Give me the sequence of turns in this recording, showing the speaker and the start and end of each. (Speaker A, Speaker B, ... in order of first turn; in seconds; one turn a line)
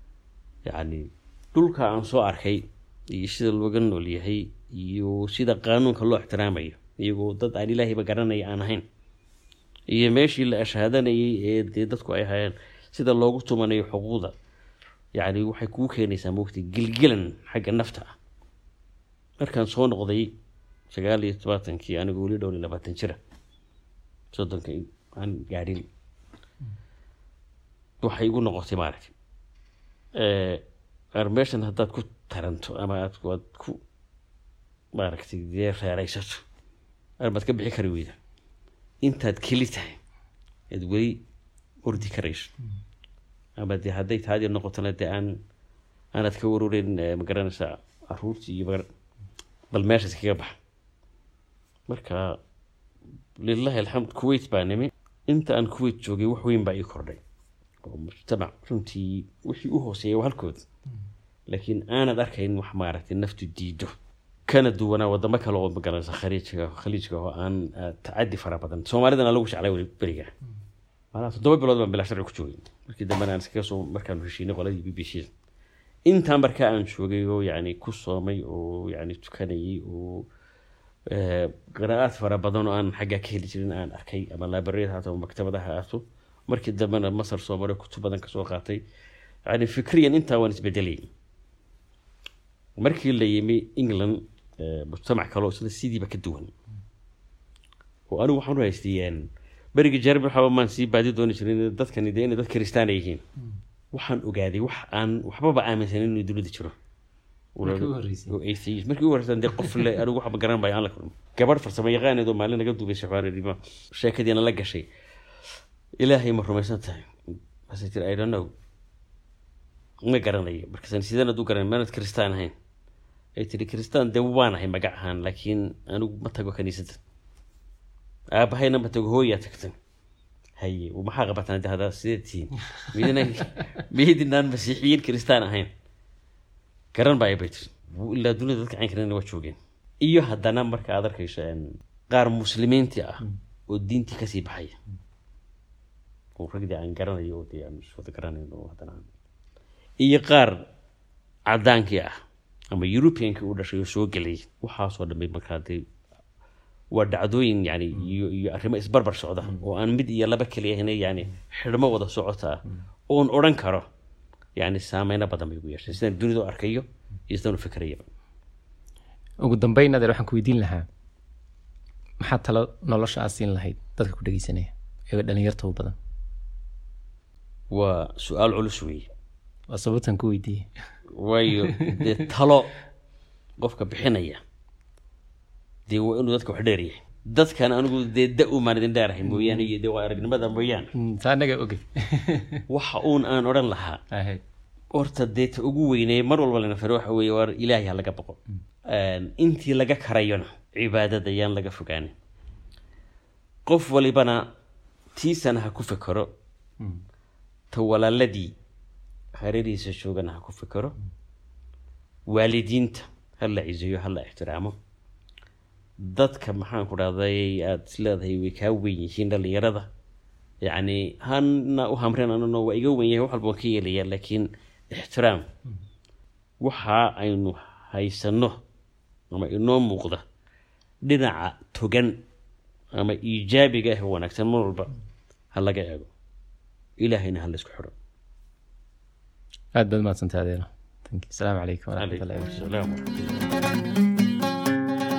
Speaker A: 0.7-8.8
Speaker A: 9.9-14.3
Speaker A: 15.2-18.1
Speaker A: 19.4-20.3
Speaker A: 20.9-23.2
Speaker A: 24.3-25.9
Speaker A: 28.0-29.1
Speaker A: 30.1-30.6
Speaker A: 31.1-33.8
Speaker A: 35.0-36.4
Speaker A: 37.2-38.2
Speaker A: 39.0-40.0
Speaker A: 40.7-41.2
Speaker A: 41.8-42.5
Speaker A: 43.6-45.4
Speaker A: 46.1-48.9
Speaker A: 49.7-50.5
Speaker A: 51.9-52.4
Speaker A: 53.4-57.2
Speaker A: 57.8-60.6
Speaker A: 61.5-70.3
Speaker A: 71.1-75.3
Speaker A: 76.1-80.3
Speaker A: 81.1-88.8
Speaker A: 89.5-91.1
Speaker A: 92.8-96.5
Speaker A: 98.1-103.2
Speaker A: 103.9-106.7
Speaker A: 107.5-114.9
Speaker B: 107.6-108.3
Speaker A: 116.0-117.1
Speaker A: 117.7-118.5
Speaker A: 120.0-122.5
Speaker A: 123.3-127.0
Speaker A: 128.3-129.8
Speaker A: 130.6-135.7
Speaker A: 136.9-144.8
Speaker A: 146.3-149.1
Speaker A: 150.0-150.6
Speaker A: 151.5-152.1
Speaker A: 152.7-155.8
Speaker A: 156.9-163.8
Speaker A: 164.6-168.1
Speaker B: 169.4-170.9
Speaker B: 172.2-175.9
Speaker A: 177.7-179.1
Speaker B: 179.7-180.7
Speaker A: 181.1-182.7
Speaker B: 181.6-182.2
Speaker A: 183.6-184.4
Speaker A: 185.9-190.9
Speaker B: 189.4-189.6
Speaker B: 190.9-192.6
Speaker A: 192.7-194.0
Speaker B: 194.1-194.4
Speaker A: 194.9-202.2
Speaker A: 203.7-204.4
Speaker A: 205.2-206.3
Speaker A: 207.7-208.5
Speaker A: 209.3-210.9
Speaker A: 212.3-214.8
Speaker A: 216.0-219.9
Speaker A: 220.6-225.5
Speaker A: 226.6-228.6
Speaker A: 229.3-230.2
Speaker A: 231.0-232.2
Speaker A: 232.9-234.9
Speaker A: 235.5-236.1
Speaker A: 237.0-237.9
Speaker B: 239.8-242.6
Speaker A: 242.0-243.6